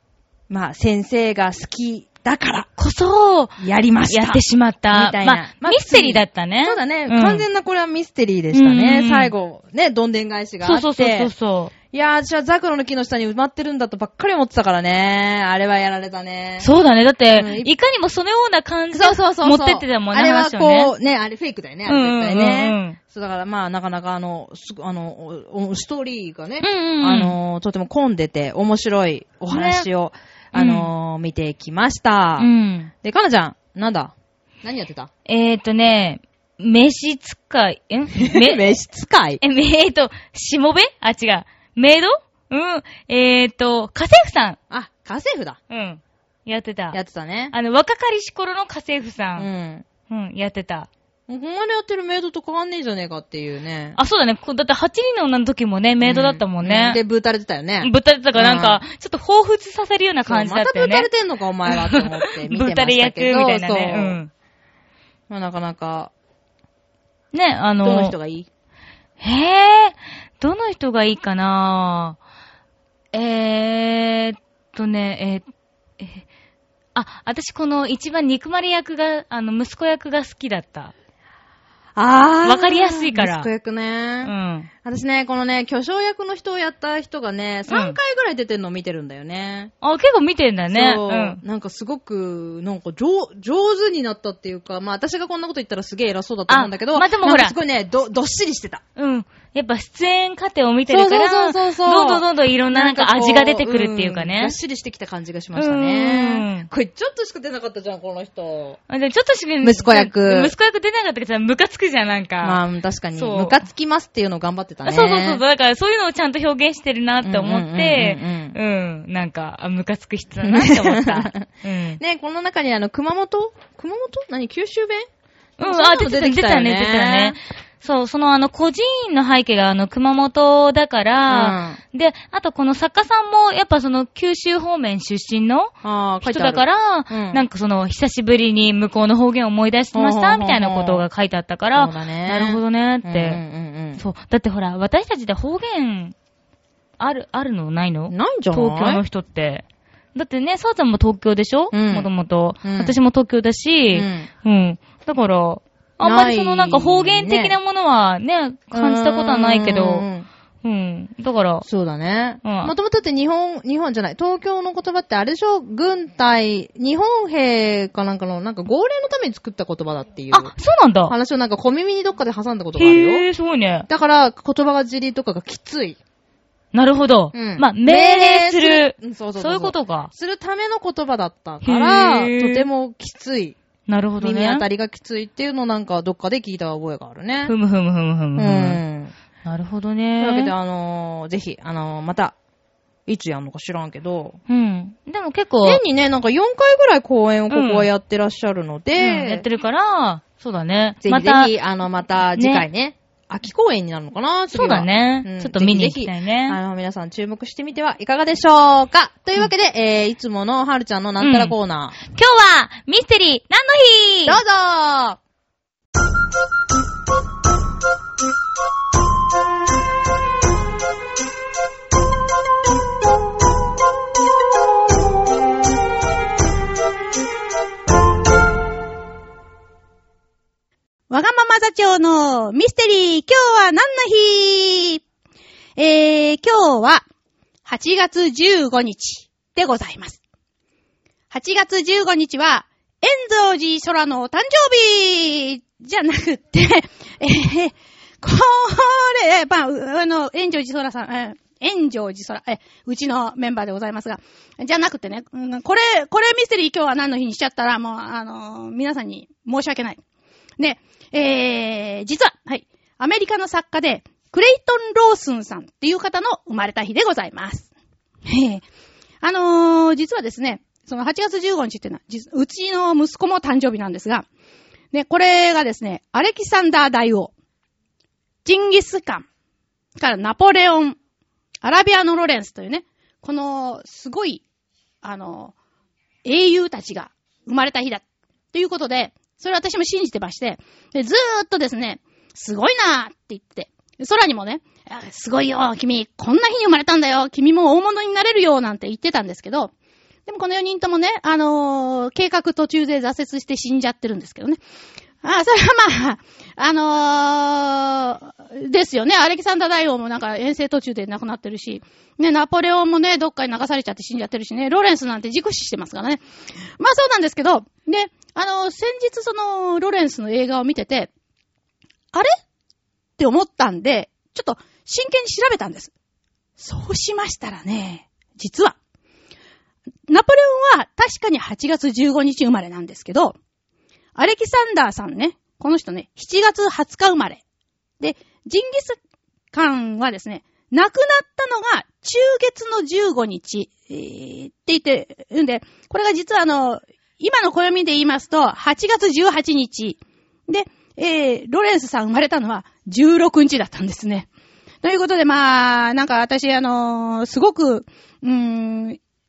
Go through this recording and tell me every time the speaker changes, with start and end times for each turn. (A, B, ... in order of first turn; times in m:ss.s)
0:00.5-0:02.7 A
0:02.8-0:07.5 B
0:03.6-0:11.3 A
0:08.5-0:09.3 B
0:10.6-0:11.7 B
0:11.9-0:16.7 A
0:16.6-0:20.9 B
0:17.3-0:17.7 A
0:18.9-0:32.5 A
0:21.9-0:23.0 B
0:26.6-0:27.4 B
0:29.5-0:29.9 B
0:30.5-0:30.9 B
0:32.4-0:32.9 B
0:33.0-0:35.1 A
0:35.3-0:38.7 B
0:38.2-0:39.4 A
0:39.4-0:44.6 B
0:44.7-0:45.6 A
0:45.7-0:47.0 B
0:46.9-0:47.5 A
0:47.5-0:49.5 B
0:49.4-0:49.9 A
0:50.1-0:50.9 B
0:51.3-0:54.0 A
0:54.0-0:57.0 B
0:56.0-0:58.8 A
0:57.8-1:01.1 B
1:00.3-1:04.2 A
1:01.7-1:04.3 B
1:05.3-1:06.1 A
1:07.3-1:08.2 B
1:07.8-1:08.5 A
1:09.2-1:12.2 B
1:13.1-1:15.5 B
1:17.0-1:20.9 B
1:22.0-1:24.3 A
1:22.4-1:23.5 B
1:24.2-1:24.7 B
1:24.8-1:29.7 A
1:27.7-1:28.0 B
1:29.8-1:31.4 B
1:30.7-1:38.8 A
1:36.5-1:37.6 B
1:39.0-1:44.6 B
1:40.9-1:48.8 A
1:45.6-1:46.7 B
1:48.9-1:52.6 B
1:49.6-1:50.5 A
1:52.4-1:55.4 A
1:53.1-1:53.6 B
1:54.8-2:02.0 B
1:57.2-1:58.6 A
2:00.4-2:01.5 A
2:02.0-2:05.1 A
2:05.6-2:07.4 A
2:05.6-2:15.7 B
2:11.3-2:11.8 A
2:15.8-2:17.4 A
2:16.2-2:23.4 B
2:19.9-2:21.0 A
2:21.8-2:24.0 A
2:24.0-2:26.2 B
2:27.0-2:29.6 B
2:28.1-2:29.0 A
2:30.2-2:40.1 B
2:31.7-2:32.1 A
2:32.6-2:33.0 A
2:33.9-2:34.3 A
2:36.0-2:37.6 A
2:38.7-2:40.3 A
2:40.6-2:41.7 B
2:41.6-2:50.5 A
2:42.4-2:42.7 B
2:50.3-2:51.2 B
2:51.1-2:53.2 A
2:52.8-2:53.9 B
2:53.9-2:56.0 A
2:56.7-3:00.1 B
2:57.3-3:03.6 A
3:01.6-3:02.7 B
3:03.9-3:04.6 B
3:04.2-3:07.5 A
3:07.5-3:08.8 B
3:08.4-3:09.1 A
3:09.4-3:10.5 B
3:10.2-3:12.4 A
3:13.1-3:14.4 A
3:14.5-3:15.8 B
3:15.6-3:19.4 A
3:17.5-3:17.9 B
3:19.0-3:21.5 B
3:21.0-3:32.0 A
3:22.4-3:22.7 B
3:24.5-3:26.6 B
3:31.2-3:31.6 B
3:32.1-3:34.4 B
3:34.3-3:35.2 A
3:51.1-3:55.0 C
3:55.8-3:57.0 C
3:57.6-4:00.2 C
4:01.3-4:20.0 C
4:20.6-4:27.7 C
4:28.3-4:28.6 C
4:29.2-4:34.3 C
4:34.9-4:37.3 C
4:38.4-4:39.2 C
4:40.0-4:41.0 C
4:41.6-4:44.4 C
4:45.0-4:45.5 C
4:46.2-4:59.7 C
5:00.3-5:04.6 C
5:05.2-5:16.2 C
5:16.8-5:21.1 C
5:23.2-5:25.9 C
5:26.6-5:28.8 C
5:30.1-5:33.4 C
5:34.2-5:37.4 C
5:38.0-5:39.0 C
5:39.5-5:54.3 C
5:54.8-5:59.0 C